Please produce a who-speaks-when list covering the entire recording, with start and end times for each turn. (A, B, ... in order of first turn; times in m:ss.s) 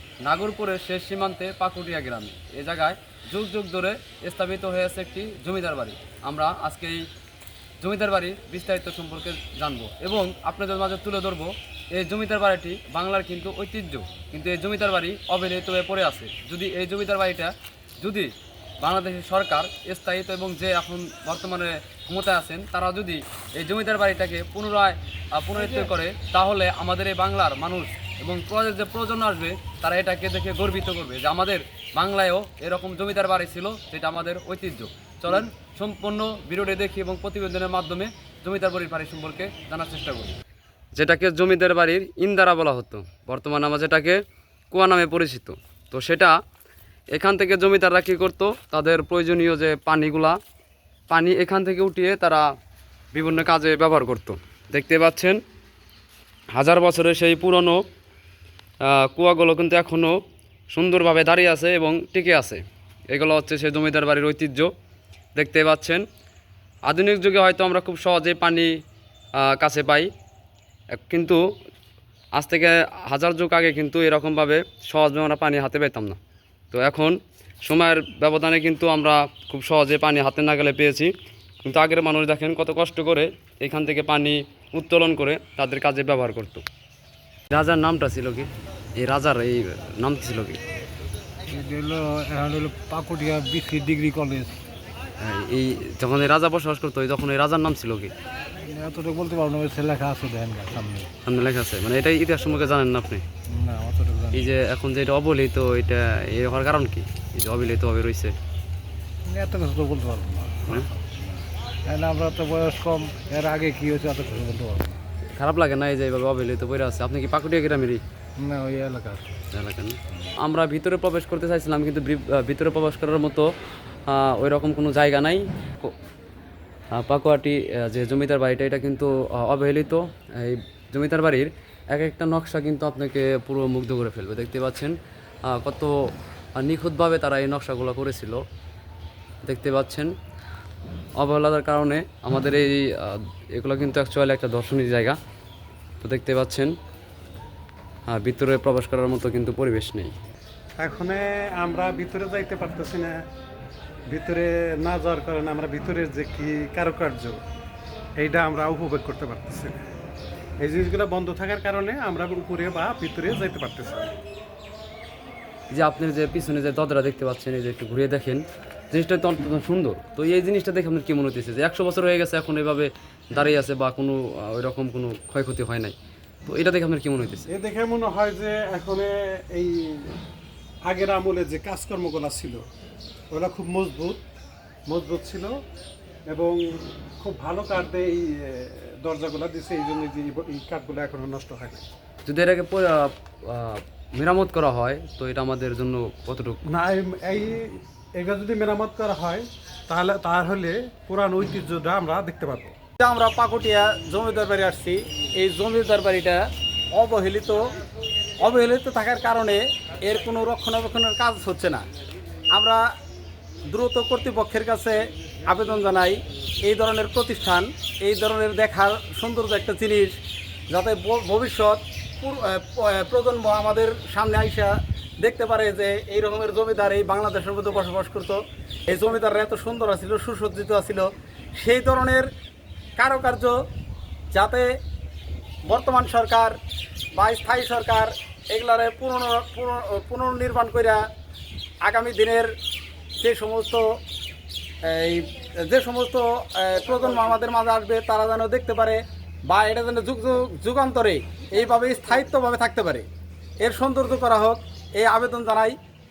0:00.2-0:07.0 A
0:07.8-0:40.4 A
0:41.0-0:44.2 A
0:44.7-0:46.4 A
0:47.1-0:50.4 A
0:51.1-0:52.5 A
0:53.1-0:55.4 A
0:56.5-0:57.8 A
0:58.8-1:00.2 A
1:00.7-1:04.7 A
1:05.4-1:06.0 A
1:06.9-1:08.7 A
1:09.4-1:10.1 A
1:10.9-1:11.4 A
1:12.4-1:16.2 A
1:16.7-1:21.1 A
1:21.6-1:26.6 A
1:27.5-1:30.6 A
1:31.5-1:34.6 B
1:35.2-1:38.1 A
1:38.7-1:41.1 B
1:41.2-1:43.2 A
1:43.5-1:44.5 B
1:44.3-1:48.4 A
1:49.3-1:55.0 B
1:55.4-1:58.0 A
1:58.4-1:59.4 B
1:59.5-2:03.5 A
2:04.1-2:05.9 A
2:06.9-2:15.0 A
2:15.5-2:15.9 A
2:16.6-2:18.4 A
2:19.4-2:20.1 A
2:21.2-2:25.2 A
2:26.0-2:26.7 A
2:28.1-2:30.1 A
2:30.8-2:33.2 C
2:34.1-2:37.4 C
2:38.2-2:39.8 C
2:40.6-2:44.1 C
2:45.7-2:56.0 A
2:56.5-2:57.5 A
2:57.5-3:00.2 C
3:00.9-3:02.6 C
3:03.3-3:04.2 C
3:04.9-3:05.6 C
3:06.3-3:11.9 C
3:12.3-3:16.6 A
3:16.7-3:22.8 C
3:23.0-3:26.4 D
3:26.9-3:27.6 D
3:28.4-3:31.8 D
3:32.5-3:32.8 D
3:33.7-3:40.2 D
3:40.7-3:52.3 D
3:53.0-3:53.5 D
3:54.3-3:54.7 D
3:55.7-3:56.6 D
3:57.2-4:01.0 D
4:01.8-4:02.5 D
4:03.2-4:03.8 D
4:04.9-4:13.1 D
4:13.6-4:15.8 D